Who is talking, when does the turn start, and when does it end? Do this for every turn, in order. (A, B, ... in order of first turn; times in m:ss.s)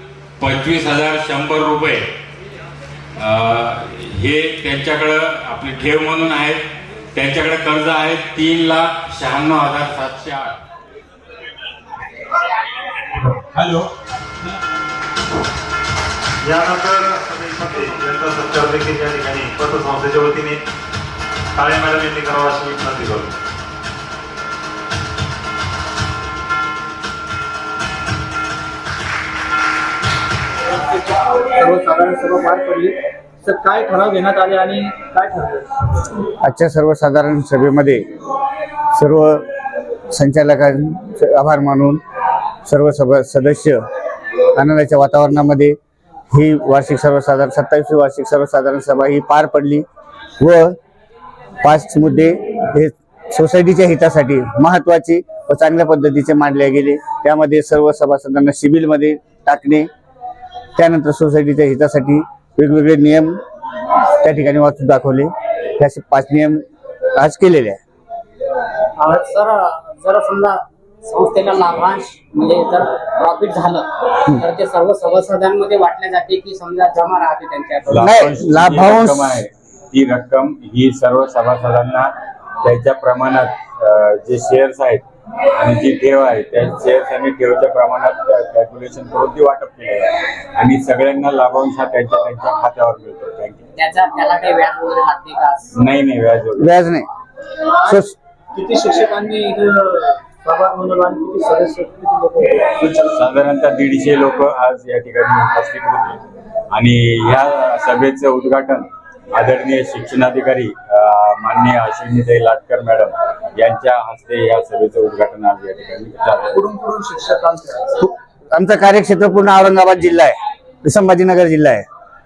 0:00.4-0:02.1 A
0:03.2-0:06.6 A
0:07.1-0:10.6 A
0:13.2-0:13.9 A
0:16.4-0:20.6 B
0:21.5-0:23.4 B
0:30.7-0:36.0 C
0:36.4-0:38.0 D
0:38.9-0:39.4 D
0:40.1-0:42.0 D
0:42.6-0:43.8 D
0:44.6-0:45.8 D
0:46.3-0:49.8 D
0:50.4-0:50.8 D
0:51.6-0:59.9 D
1:00.8-1:03.4 D
1:04.2-1:06.6 D
1:07.2-1:07.8 D
1:09.0-1:18.2 E
1:17.9-1:22.1 A
1:18.0-1:19.4 D
1:22.6-1:33.6 A
1:33.8-1:35.7 E
1:35.8-1:36.7 A
1:36.6-1:37.1 D
1:37.8-1:43.1 C
1:37.8-1:38.1 D
1:43.1-1:46.2 A
1:46.7-1:56.6 A
1:56.5-1:57.9 C
1:58.0-2:01.8 D